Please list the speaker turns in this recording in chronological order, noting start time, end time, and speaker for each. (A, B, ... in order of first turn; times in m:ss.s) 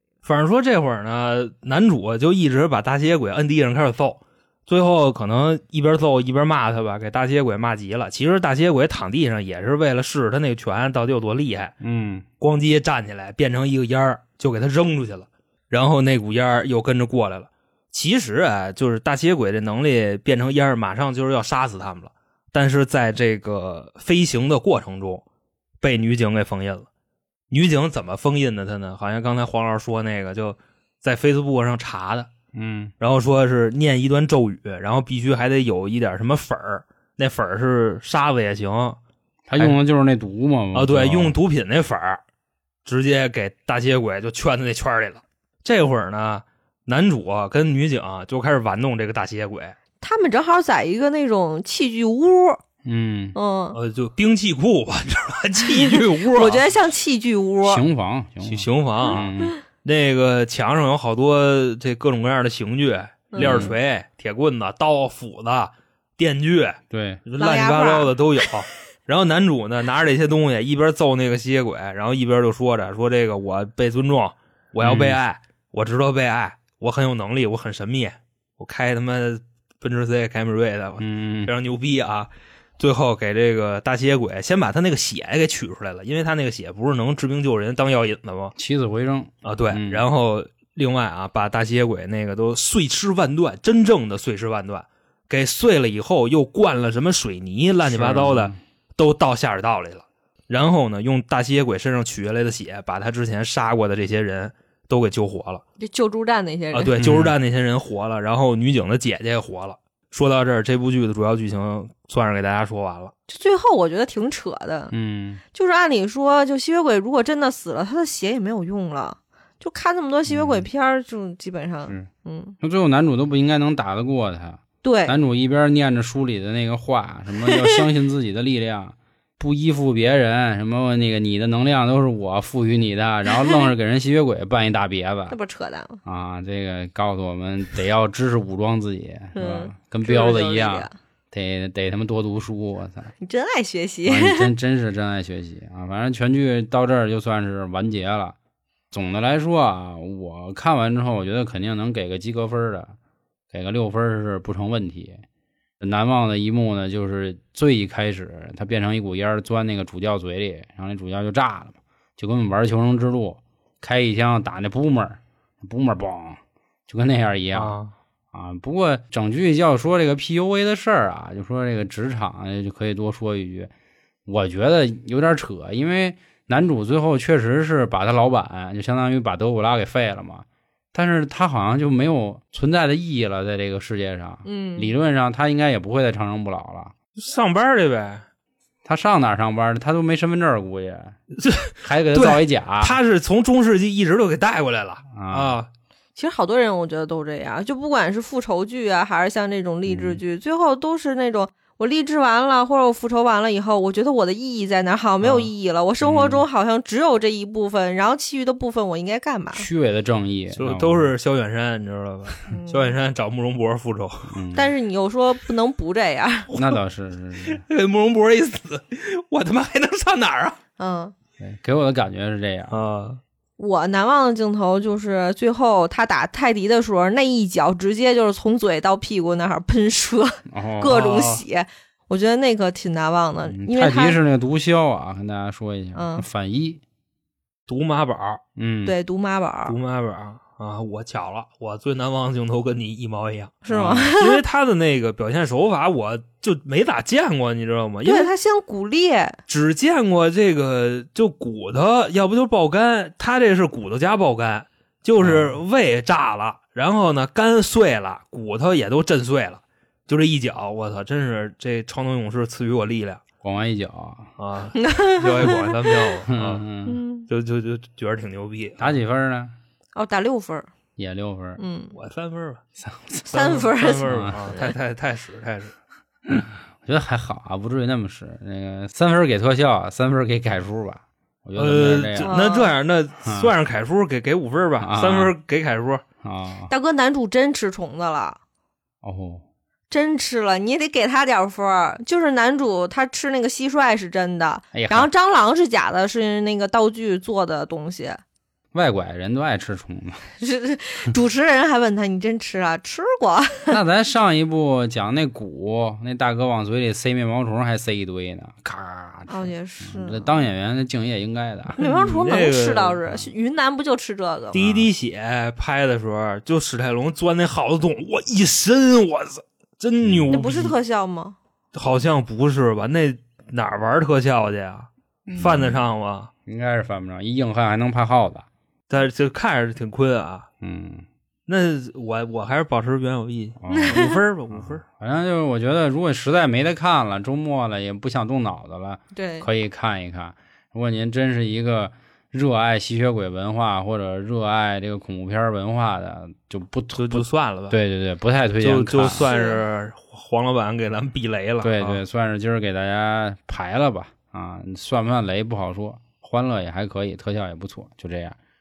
0:00.2-0:11.7 A
0:11.8-0:12.2 B
0:12.4-0:25.2 A
0:25.8-0:26.9 A
0:27.5-0:32.3 A
0:32.5-0:32.9 B
0:33.0-0:39.0 A
0:39.5-0:41.3 B
0:40.7-0:42.2 A
0:42.8-0:49.8 A
0:50.0-0:52.6 C
0:52.8-0:53.3 B
0:53.3-0:53.8 C
0:53.7-0:56.6 A
0:55.8-0:57.8 C
0:57.6-0:59.6 B
0:58.4-0:59.3 A
0:59.0-0:59.5 C
0:59.8-1:28.5 A
1:03.3-1:03.7 C
1:03.4-1:03.7 B
1:06.9-1:07.2 B
1:07.4-1:08.5 C
1:14.8-1:15.2 B
1:21.0-1:21.5 B
1:28.6-1:30.0 B
1:29.4-1:45.6 A
1:37.8-1:38.6 B
1:45.8-1:47.0 C
1:46.7-1:53.1 A
1:47.0-1:47.3 B
1:53.3-1:54.9 C
1:54.9-1:55.4 B
1:55.5-2:02.6 C
2:00.3-2:00.7 B
2:02.6-2:15.4 B
2:04.8-2:05.2 C
2:13.3-2:13.6 C
2:15.3-2:16.0 C
2:16.0-2:23.1 B
2:19.3-2:20.9 C
2:23.2-2:24.5 C
2:24.0-2:28.4 B
2:28.9-2:32.9 B
2:33.5-2:35.2 B
2:35.8-2:47.8 B
2:47.5-2:47.9 A
2:48.3-2:53.7 B
2:54.2-3:06.9 B
3:04.4-3:04.9 C
3:07.2-3:08.2 A
3:08.8-3:11.2 B
3:11.4-3:15.7 A
3:11.8-3:13.0 B
3:15.1-3:15.6 B
3:16.1-3:29.6 C
3:19.9-3:20.2 B
3:26.0-3:26.4 B
3:29.5-3:31.1 B
3:30.5-3:34.4 A
3:32.5-3:32.9 C
3:34.3-3:34.7 B
3:34.5-3:36.5 C
3:36.5-3:37.6 B
3:37.4-3:40.6 A
3:40.8-3:41.1 C
3:41.4-3:42.8 B
3:42.7-3:43.2 A
3:43.6-3:54.2 C
3:50.5-3:50.9 B
3:50.9-3:51.4 A
3:53.5-3:56.8 B
3:55.9-3:56.2 C
3:57.7-3:58.4 A
3:58.6-3:58.9 B
3:58.8-3:59.8 C
3:59.7-4:08.3 A
4:03.6-4:04.4 C
4:03.7-4:04.1 B
4:08.0-4:09.4 C
4:09.5-4:23.2 A
4:15.2-4:15.6 B
4:23.4-4:24.3 B
4:24.4-4:26.6 A
4:24.8-4:26.2 C
4:26.3-4:27.0 B
4:26.8-4:27.3 C
4:27.2-4:28.9 A
4:28.8-4:29.5 B
4:29.9-4:30.7 C
4:31.0-4:31.6 B
4:31.6-4:31.9 C
4:31.9-4:32.6 A
4:32.8-4:33.3 B
4:33.3-4:34.7 C
4:33.3-4:35.7 A
4:34.0-4:34.4 B
4:36.3-4:42.3 B
4:41.6-4:46.0 A
4:42.2-4:42.7 C
4:43.2-4:43.5 B
4:44.8-4:45.3 B
4:46.2-4:46.7 B
4:46.7-4:48.4 C
4:49.0-4:49.4 B
4:49.9-4:58.2 C
4:54.7-4:55.1 B
4:58.7-5:00.2 B
5:00.4-5:03.8 C
5:03.7-5:11.8 B
5:09.3-5:10.3 C
5:11.8-5:13.0 A
5:11.8-5:14.6 C
5:14.5-5:20.7 A
5:14.6-5:14.9 B
5:20.0-5:20.4 B
5:20.3-5:21.4 C
5:21.7-5:26.3 A
5:25.3-5:25.7 B
5:26.4-5:28.4 B
5:28.9-5:30.5 A
5:30.6-5:31.0 B
5:31.5-5:34.8 A
5:33.6-5:34.0 B
5:33.7-5:34.2 C
5:34.5-5:49.3 B
5:39.1-5:39.5 C
5:47.0-5:47.8 A
5:48.6-5:52.0 A
5:49.1-5:49.6 C
5:51.6-5:58.4 B